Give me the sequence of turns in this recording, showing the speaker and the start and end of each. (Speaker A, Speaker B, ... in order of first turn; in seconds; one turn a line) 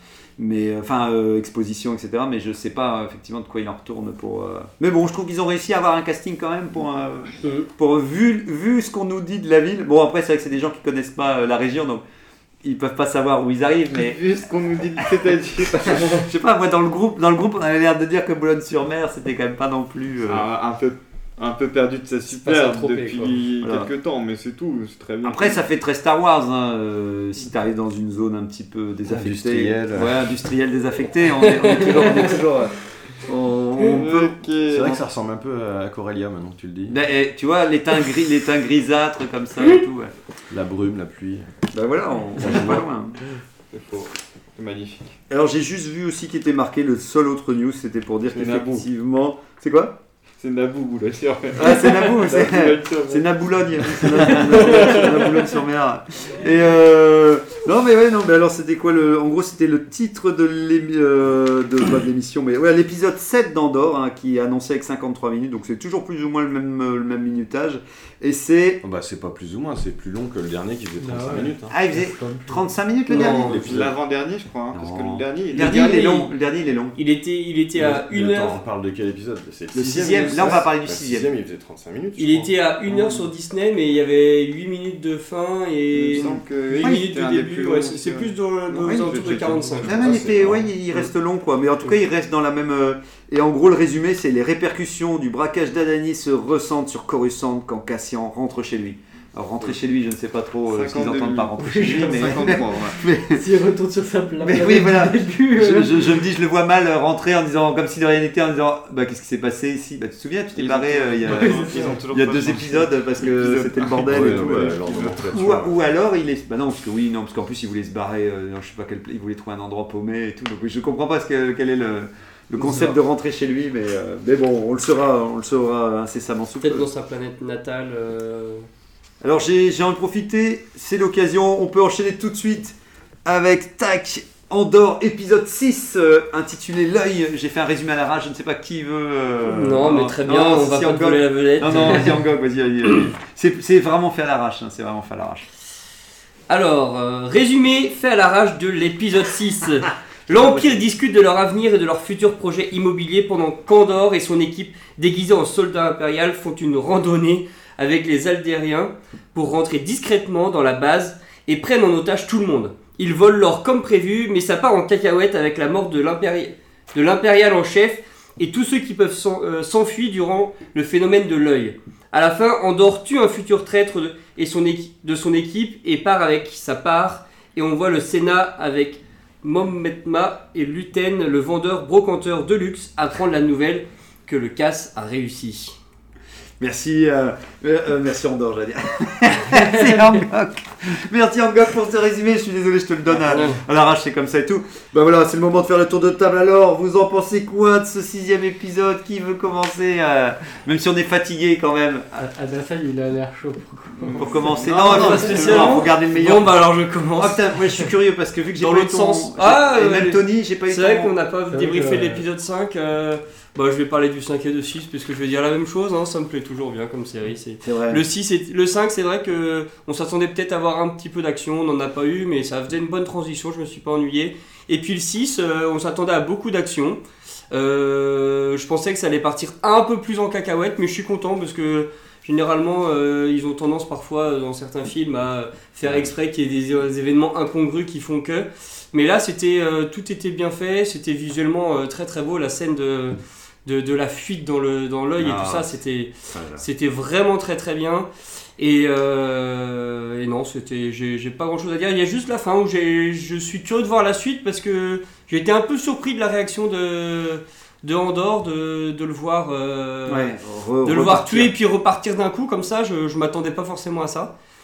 Speaker A: 0.4-12.0
Speaker A: 12.6-14.3
Speaker B: 13.9-16.2
Speaker A: 15.7-20.5
Speaker B: 20.2-25.6
Speaker C: 22.3-23.4
Speaker A: 23.6-23.9
Speaker A: 25.2-34.4
Speaker D: 29.1-30.3
Speaker C: 31.5-32.3
Speaker B: 33.9-35.0
Speaker D: 34.6-37.0
Speaker A: 36.9-40.1
Speaker D: 40.5-41.5
Speaker A: 41.7-43.2
Speaker D: 42.4-42.8
Speaker B: 43.7-45.1
Speaker A: 45.3-50.0
Speaker B: 48.3-48.9
Speaker B: 50.4-55.2
Speaker A: 51.5-68.8
Speaker D: 68.8-71.7
Speaker E: 71.0-72.6
Speaker A: 71.7-73.7
Speaker C: 73.1-73.5
Speaker D: 73.1-73.9
Speaker B: 73.2-76.3
Speaker A: 74.7-77.0
Speaker C: 75.5-76.2
Speaker C: 77.0-78.6
Speaker D: 77.7-82.5
Speaker A: 79.7-81.3
Speaker C: 82.2-90.1
Speaker B: 85.9-90.7
Speaker A: 88.8-89.1
Speaker A: 89.8-103.4
Speaker D: 90.1-90.7
Speaker B: 100.7-103.0
Speaker E: 101.6-102.8
Speaker E: 103.3-106.2
Speaker A: 104.4-126.9
Speaker B: 110.5-115.2
Speaker E: 111.2-112.0
Speaker D: 114.0-115.7
Speaker C: 122.5-123.0
Speaker C: 126.6-128.7
Speaker A: 129.2-145.4
Speaker C: 139.5-142.2
Speaker C: 146.5-185.7
Speaker A: 150.3-150.8
Speaker A: 186.6-202.2
Speaker C: 193.2-193.6
Speaker E: 202.2-204.3
Speaker A: 204.1-206.6
Speaker B: 204.3-205.7
Speaker C: 204.7-207.8
Speaker E: 205.0-205.7
Speaker A: 207.2-211.1
Speaker C: 208.6-260.3
Speaker E: 211.5-212.2
Speaker A: 217.6-218.0
Speaker A: 245.2-246.6
Speaker A: 260.1-261.5
Speaker C: 260.8-264.3